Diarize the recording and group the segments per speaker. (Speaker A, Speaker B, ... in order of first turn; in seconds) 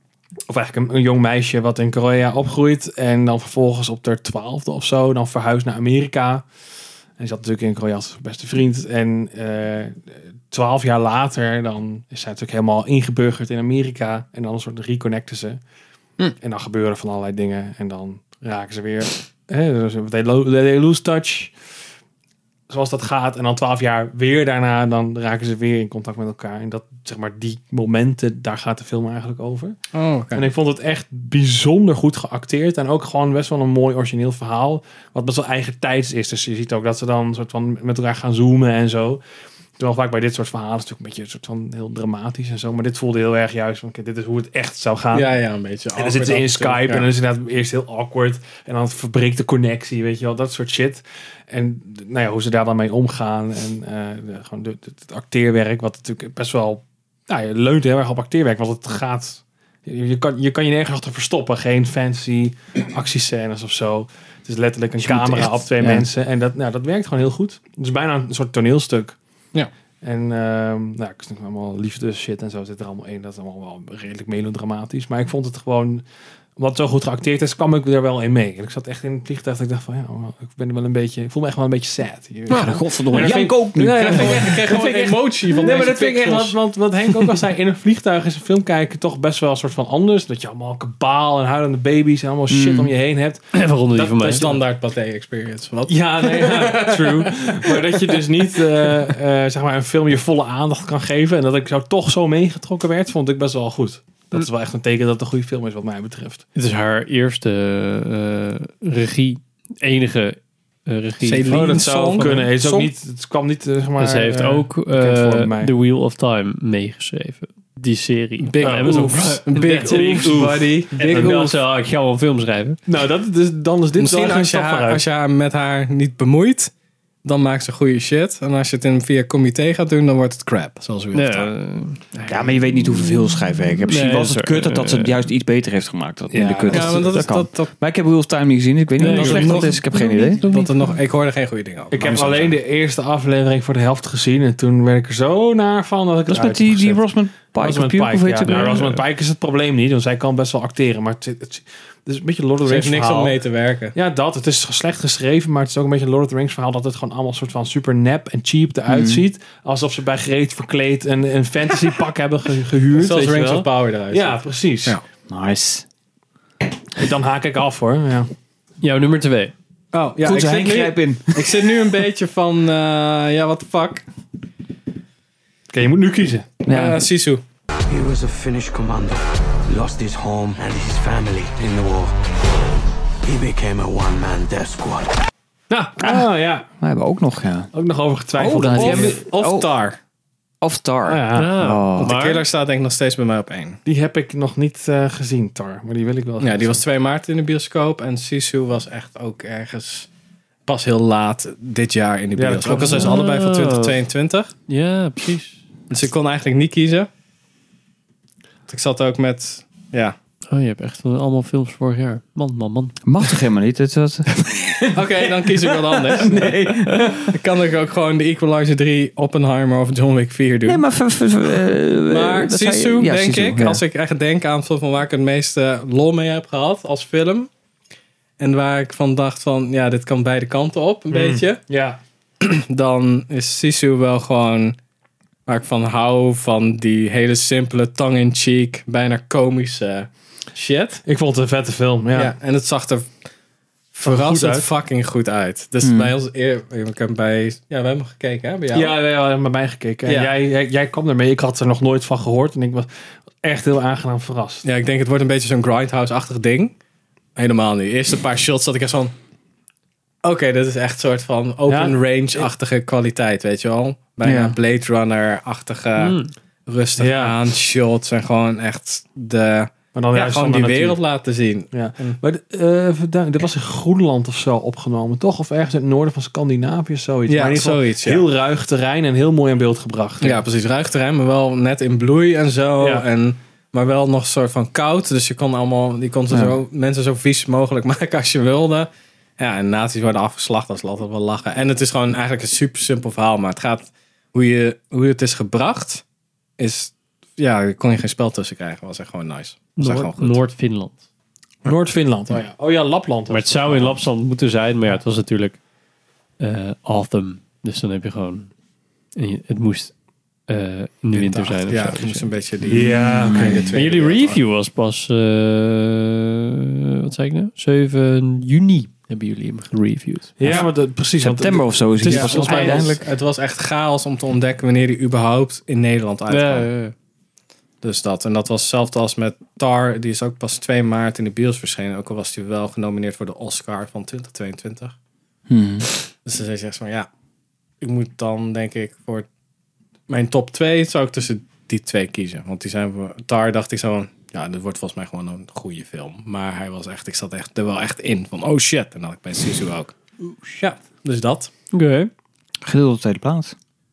Speaker A: 0.5-6.5, 7.2-15.6, 16.3-21.5, 22.7-29.8, 30.3-39.2, 39.8-45.3, 46.0-69.2, 70.0-76.0, 76.6-93.4, 95.9-106.4, 111.5-115.7, 118.6-121.6, 122.9-125.0, 136.3-137.2, 141.9-153.4, 153.9-165.0, 167.0-168.3, 175.7-176.5, 185.9-186.6, 187.7-189.2, 191.1-191.6, 193.9-196.8, 202.4-203.2, 231.1-232.0, 241.1-242.3, 244.0-244.7, 248.7-252.9, 253.4-254.6, 261.7-262.4, 267.0-267.4, 269.9-271.0, 271.7-280.4, 301.6-304.0, 312.7-313.7, 320.4-323.0
Speaker B: 29.9-30.5, 45.1-47.1, 82.5-87.3, 94.0-98.9, 111.2-112.9, 118.4-121.5, 124.0-126.7, 127.2-131.5, 136.7-137.7, 139.0-139.9, 140.4-142.6, 152.6-153.9, 162.9-165.0, 169.9-174.1, 176.7-177.4, 188.7-190.0, 191.9-193.8, 196.4-200.1, 200.7-204.5, 205.9-207.1, 208.7-210.2, 214.9-220.8, 222.1-227.5, 228.4-231.6, 232.4-234.8, 235.4-241.0, 242.1-243.1, 243.9-248.9, 250.1-250.3, 254.6-256.7, 257.4-259.1, 260.2-272.2, 277.3-278.3, 280.2-296.0, 296.6-300.4, 311.1-314.4, 322.1-326.7, 327.8-334.9, 336.2-337.1, 337.8-339.3, 340.1-351.5
Speaker C: 65.0-66.0, 82.5-84.5, 92.5-92.9, 132.3-140.4, 146.3-148.9, 158.9-159.2, 165.3-165.8, 170.2-171.6, 176.7-177.0, 186.0-187.7, 188.3-189.7, 190.6-192.1, 213.1-217.3, 220.7-223.8, 245.8-246.1, 264.2-264.6, 312.9-313.6, 320.4-323.0, 335.5-335.9, 352.6-353.5
Speaker D: 93.5-94.5, 106.5-111.8, 114.0-122.8, 131.1-132.6, 133.9-135.1, 139.0-140.9, 148.4-149.0, 168.8-169.5, 191.3-192.4, 202.7-204.0, 204.7-205.6, 210.5-213.0, 266.0-266.3, 299.8-301.0, 303.3-305.6, 306.4-308.5, 309.1-309.9, 310.5-312.3, 313.7-320.6, 326.3-326.9, 351.7-352.1
Speaker E: 177.9-182.1, 183.2-185.1